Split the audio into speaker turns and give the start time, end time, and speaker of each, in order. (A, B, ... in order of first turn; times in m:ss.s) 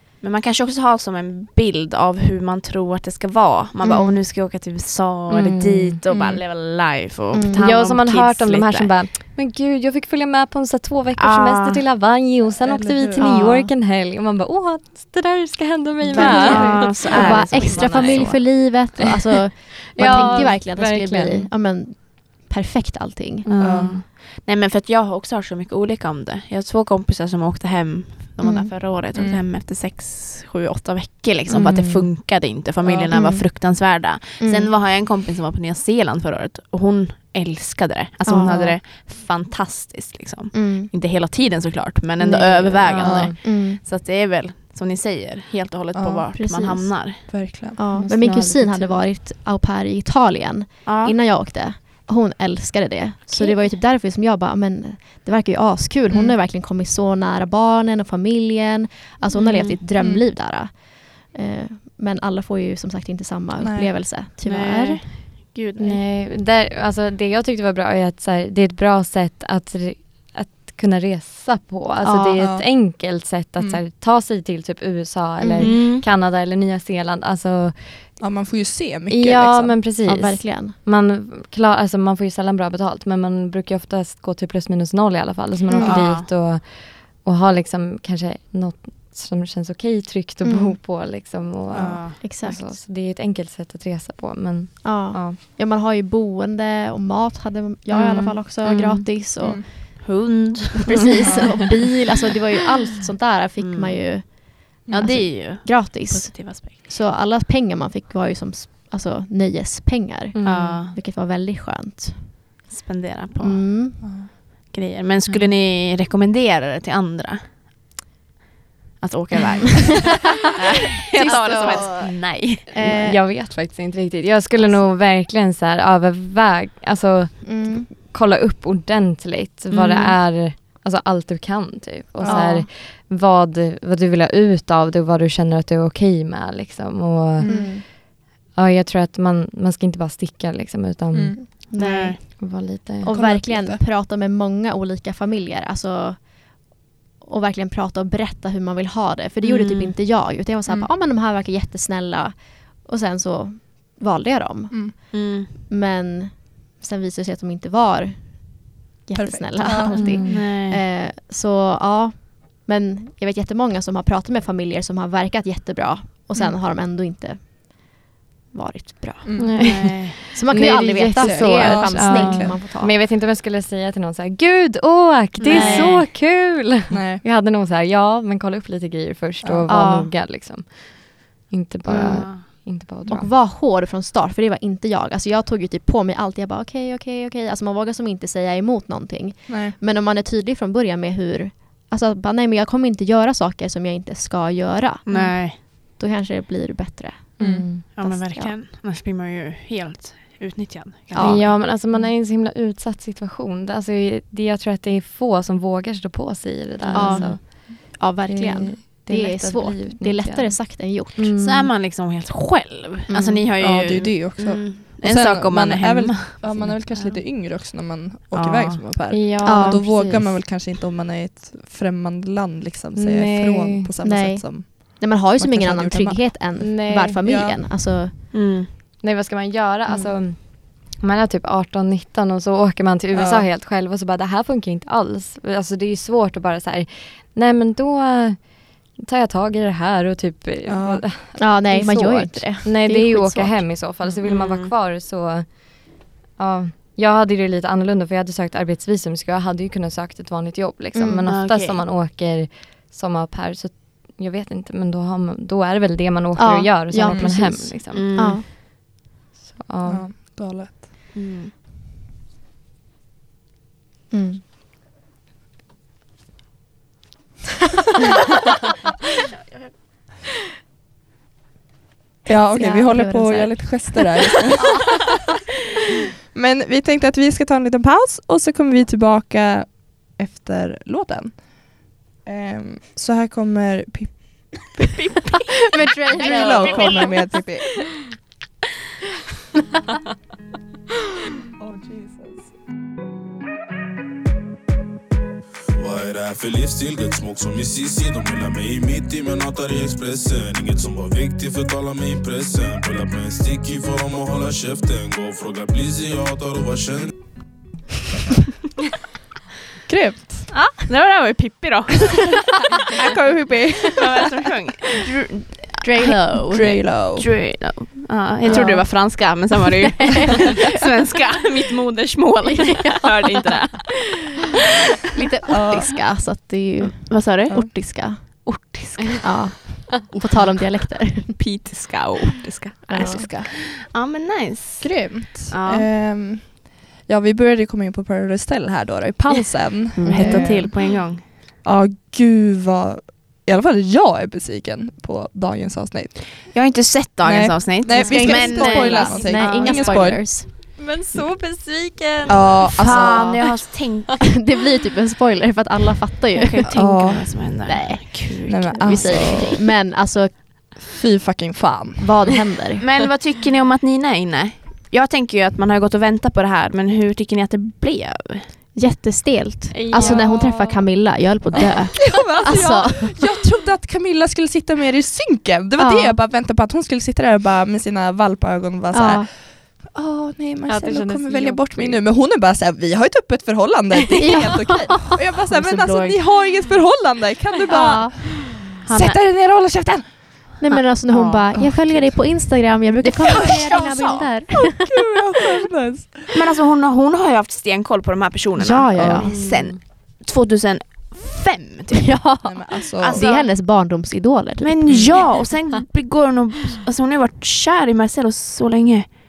0:00.2-0:09.0 A
0:03.8-0:04.2 B
0:05.3-0:06.0 C
0:06.1-0:06.4 D
0:07.3-0:07.7 B
0:07.6-0:18.3 C
0:11.2-0:11.8 A
0:12.6-0:13.3 D
0:13.2-0:13.6 B
0:16.0-0:17.4 D
0:16.1-0:18.5 A
0:16.2-0:23.5 B
0:19.9-0:21.5 C
0:23.4-0:24.0 C
0:23.6-0:47.2 A
0:23.6-0:23.9 D
0:28.4-0:28.7 B
0:29.1-0:29.4 D
0:31.7-0:32.1 D
0:32.8-0:33.1 D
0:33.1-0:33.7 B
0:34.4-0:34.7 B
0:38.3-0:38.7 B
0:40.5-0:40.9 B
0:42.2-0:43.4 C
0:43.0-0:43.3 D
0:43.4-0:43.8 B
0:45.9-0:46.3 D
0:46.4-1:05.1 B
0:47.3-0:47.8 D
0:47.9-0:49.0 C
0:50.8-0:51.2 A
0:59.3-0:59.8 A
1:00.0-1:00.2 D
1:03.6-1:03.9 D
1:04.4-1:06.0 A
1:05.8-1:18.2 C
1:12.0-1:12.4 B
1:12.4-1:12.9 D
1:15.4-1:15.8 B
1:15.6-1:16.1 A
1:18.2-1:19.8 D
1:19.1-1:35.4 C
1:20.0-1:20.8 B
1:25.7-1:26.0 B
1:25.8-1:26.3 A
1:30.4-1:30.8 B
1:31.7-1:32.0 D
1:31.8-1:32.2 A
1:32.2-1:32.7 B
1:34.8-1:39.8 B
1:37.9-1:41.6 A
1:40.8-1:52.3 B
1:41.2-1:41.6 D
1:43.6-1:46.9 A
1:44.9-1:45.2 D
1:50.3-1:50.8 C
1:50.4-1:51.0 A
1:52.7-1:54.0 A
1:53.4-1:54.2 B
1:54.0-1:54.3 D
1:54.7-1:57.5 A
1:59.0-2:03.1 A
1:59.8-2:00.2 B
2:01.1-2:03.2 B
2:01.2-2:01.7 C
2:02.8-2:21.7 C
2:07.4-2:07.9 B
2:09.7-2:10.2 A
2:12.2-2:12.5 D
2:12.2-2:12.7 B
2:17.4-2:17.7 D
2:17.4-2:17.8 B
2:21.1-2:21.4 D
2:21.4-2:49.6 B
2:21.8-2:22.2 A
2:22.4-2:23.2 C
2:23.1-2:23.8 D
2:29.4-2:29.9 A
2:35.1-2:35.6 A
2:39.2-2:40.2 D
2:39.9-2:40.4 C
2:40.2-2:40.8 A
2:49.2-2:49.7 D
2:49.4-3:03.3 C
2:49.6-2:50.2 A
2:50.3-2:53.0 B
2:51.2-2:52.6 D
2:55.4-2:56.1 A
2:55.5-2:56.0 B
2:56.9-2:57.2 D
2:59.7-3:00.1 B
3:01.9-3:18.6 B
3:02.0-3:02.4 A
3:09.5-3:09.8 D
3:15.1-3:15.6 A
3:17.4-3:17.7 D
3:17.4-3:17.8 C
3:17.9-3:21.5 A
3:21.1-3:21.5 B
3:21.2-3:31.7 C
3:26.8-3:27.3 A
3:26.9-3:31.3 B
3:31.4-3:37.2 A
3:33.1-3:33.4 B
3:33.6-3:46.6 D
3:38.3-3:39.2 A
3:39.1-3:40.4 C
3:39.4-3:39.8 B
3:43.0-3:43.9 C
3:44.0-3:48.1 B
3:46.6-3:47.2 C
3:47.2-3:47.6 D
3:48.3-3:48.7 A
3:49.0-4:18.5 C
3:49.9-3:50.1 B
3:53.1-3:53.5 D
4:00.6-4:01.1 D
4:01.4-4:03.6 B
4:04.2-4:04.7 A
4:11.0-4:11.2 B
4:11.3-4:11.8 A
4:16.4-4:18.4 B
4:17.9-4:18.4 A
4:19.4-4:20.1 C
4:19.9-4:20.9 D
4:21.1-4:21.5 A
4:24.1-4:24.4 B
4:32.3-4:34.9 D
4:32.3-4:34.0 B
4:36.3-4:44.9 D
4:45.0-4:47.3 A
4:45.7-4:47.2 B
4:46.1-4:47.8 D
4:51.6-4:52.5 D
4:55.8-5:07.1 E
5:09.9-5:10.6 D
5:10.5-5:12.9 A
5:12.9-5:14.2 D
5:14.0-5:24.0 A
5:15.8-5:16.8 B
5:16.5-5:17.3 D
5:18.4-5:19.4 B
5:20.0-5:20.6 B
5:22.5-5:23.1 B
5:25.2-5:28.5 B
5:25.5-5:25.9 D
5:27.1-5:29.2 A
5:29.2-5:31.4 B
5:31.2-5:35.9 A
5:32.9-5:33.3 B
5:32.9-5:33.5 D
5:34.8-5:41.0 D
5:40.0-5:41.3 A
5:40.0-5:40.6 B
5:41.6-5:46.4 D
5:46.5-5:50.2 A
5:47.2-5:50.2 D
5:47.9-5:50.5 B
5:50.5-5:52.9 C
5:52.3-5:53.4 D
5:52.7-5:54.3 A
5:52.9-5:53.4 B
5:54.2-5:56.7 B
5:56.4-5:59.6 A
5:56.7-5:57.5 D
5:57.6-6:00.7 B
5:58.5-5:59.6 D
6:00.8-6:02.1 D
6:02.0-6:02.8 B
6:02.8-6:08.6 A
6:08.8-6:13.2 B
6:09.7-6:10.9 C
6:09.9-6:10.2 A
6:12.0-6:30.5 D
6:15.8-6:16.2 B
6:18.9-6:19.3 B
6:20.7-6:22.0 C
6:24.3-6:24.9 B
6:25.5-6:26.2 A
6:27.7-6:28.2 B
6:28.8-6:29.2 A
6:30.6-6:35.0 B
6:30.7-6:31.5 A
6:31.6-6:32.1 D
6:33.0-6:34.3 A
6:34.7-6:36.4 D
6:36.3-6:42.2 A
6:38.6-6:39.4 B
6:39.0-6:39.3 D
6:39.3-6:39.7 C
6:41.9-6:45.2 B
6:42.4-6:43.2 D
6:43.0-6:43.5 A
6:44.6-6:49.1 A